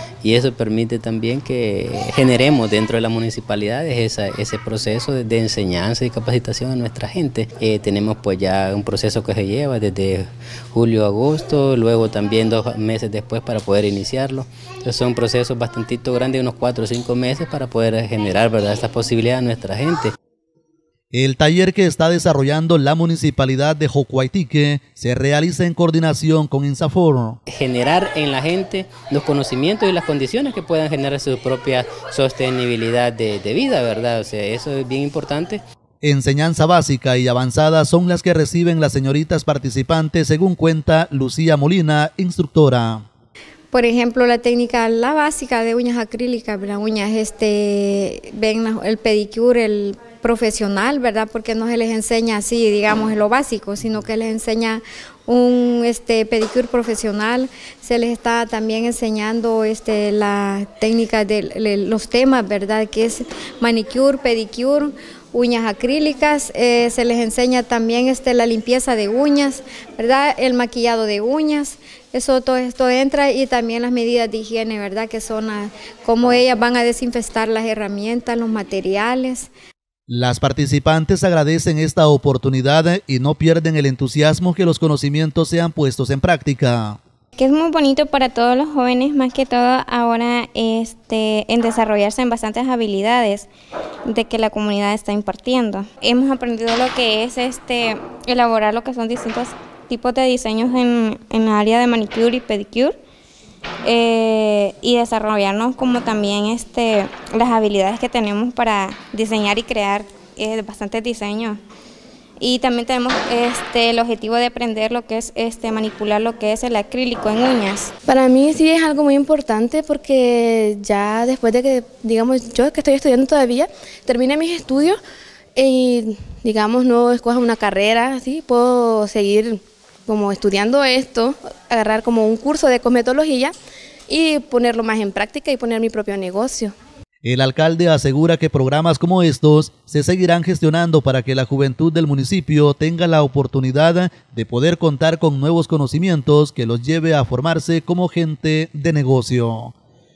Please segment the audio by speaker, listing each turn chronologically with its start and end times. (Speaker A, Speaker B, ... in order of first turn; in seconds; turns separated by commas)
Speaker A: 0.2-20.1, Speaker B: 21.1-27.4, Speaker A: 27.5-35.6, Speaker B: 36.0-43.0, Speaker C: 43.7-79.5, Speaker B: 80.1-87.0, Speaker D: 87.4-93.5, Speaker D: 94.1-102.9, Speaker D: 103.8-111.6, Speaker D: 112.4-117.9, Speaker E: 118.0-125.0, Speaker E: 125.5-133.5, Speaker E: 134.1-136.7, Speaker B: 137.2-149.7